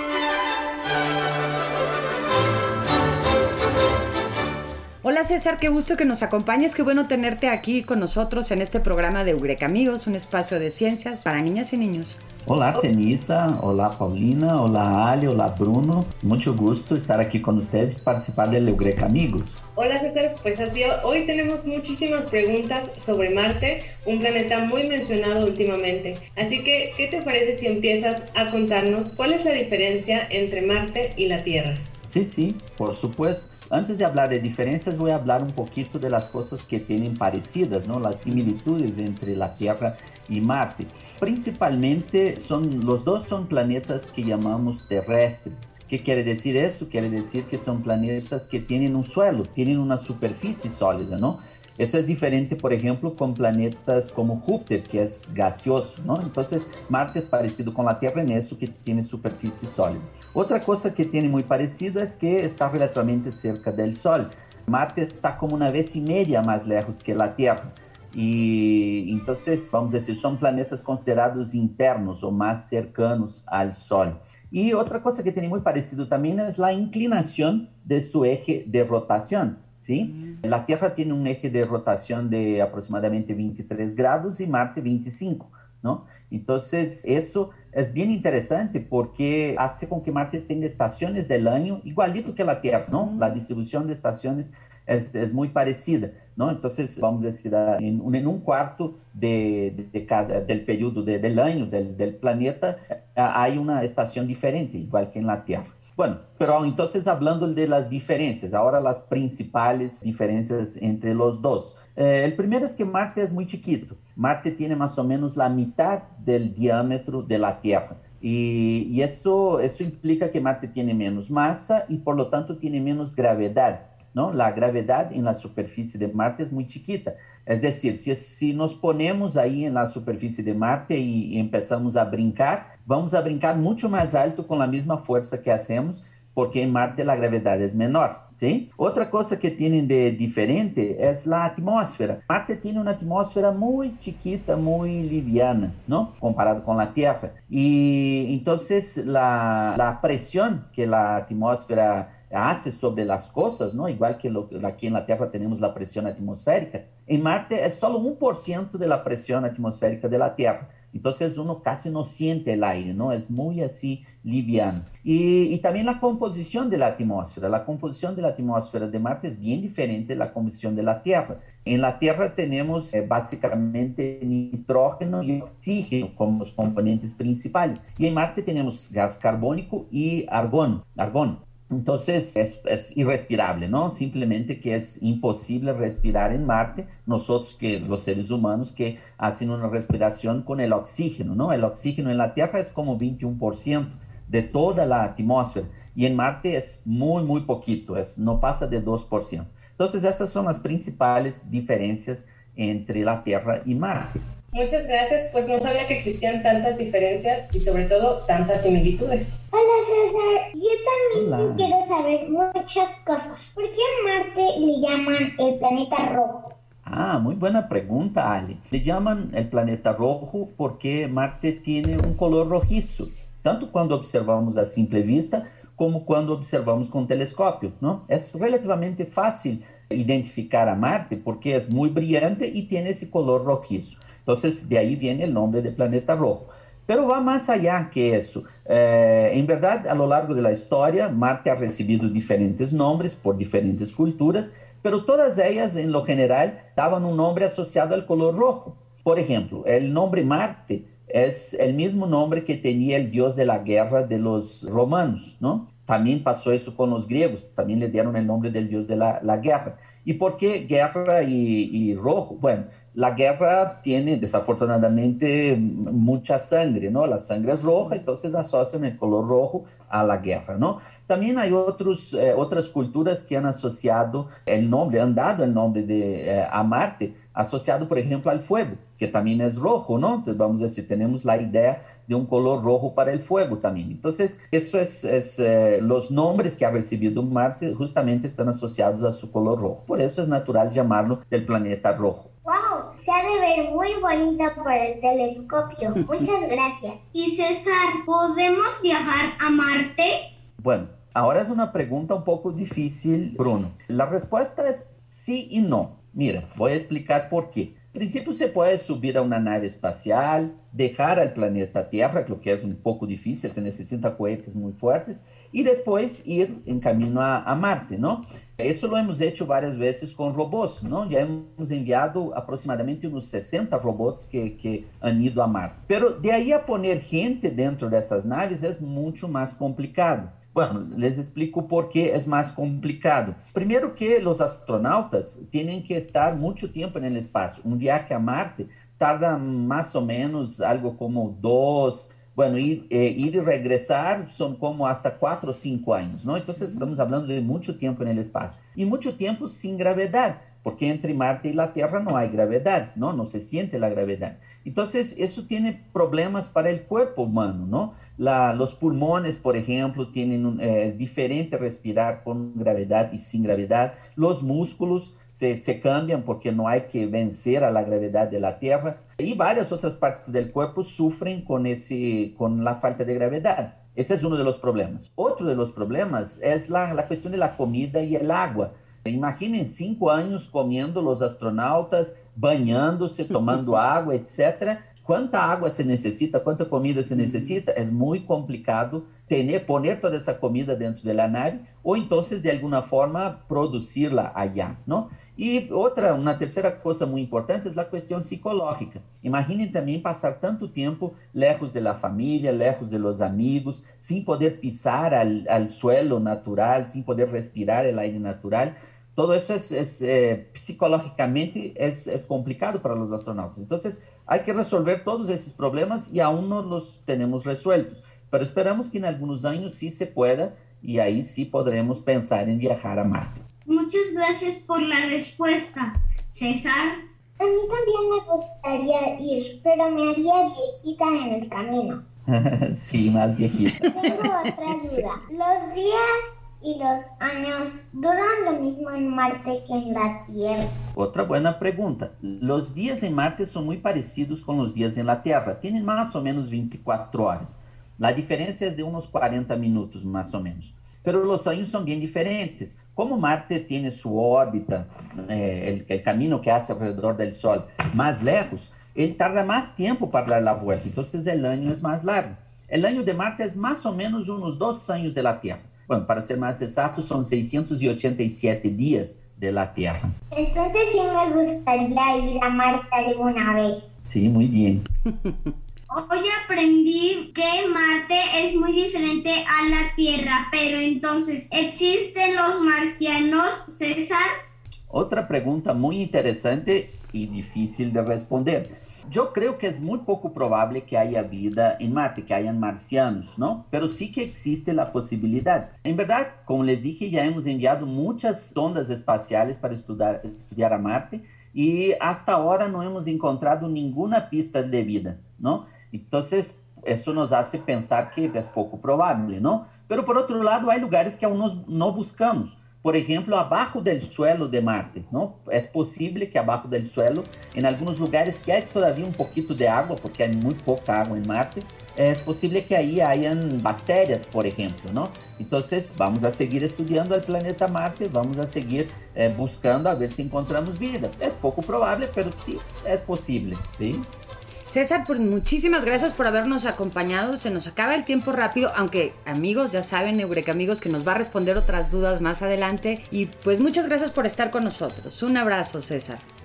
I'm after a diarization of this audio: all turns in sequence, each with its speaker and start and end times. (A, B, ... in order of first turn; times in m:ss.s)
0:05.0-0:12.2 A
0:12.5-0:19.6 B
0:19.8-0:31.8 C
0:32.1-3:24.2 B
3:24.5-3:29.3 C
3:29.5-3:36.6 D
3:31.1-3:31.7 B
3:36.8-4:52.3 B
4:52.4-4:57.0 D
4:57.1-5:00.3 E
5:00.6-7:03.4 B
7:03.7-7:07.0 E
7:07.4-7:12.0 D
7:12.3-7:14.1 B
7:13.9-7:20.7 D
7:14.8-7:15.0 B
7:21.0-7:50.2 B
7:50.3-7:53.9 D
7:54.0-7:54.8 B
7:55.9-8:04.3 E
8:04.9-8:54.1 B
8:54.7-9:06.2 A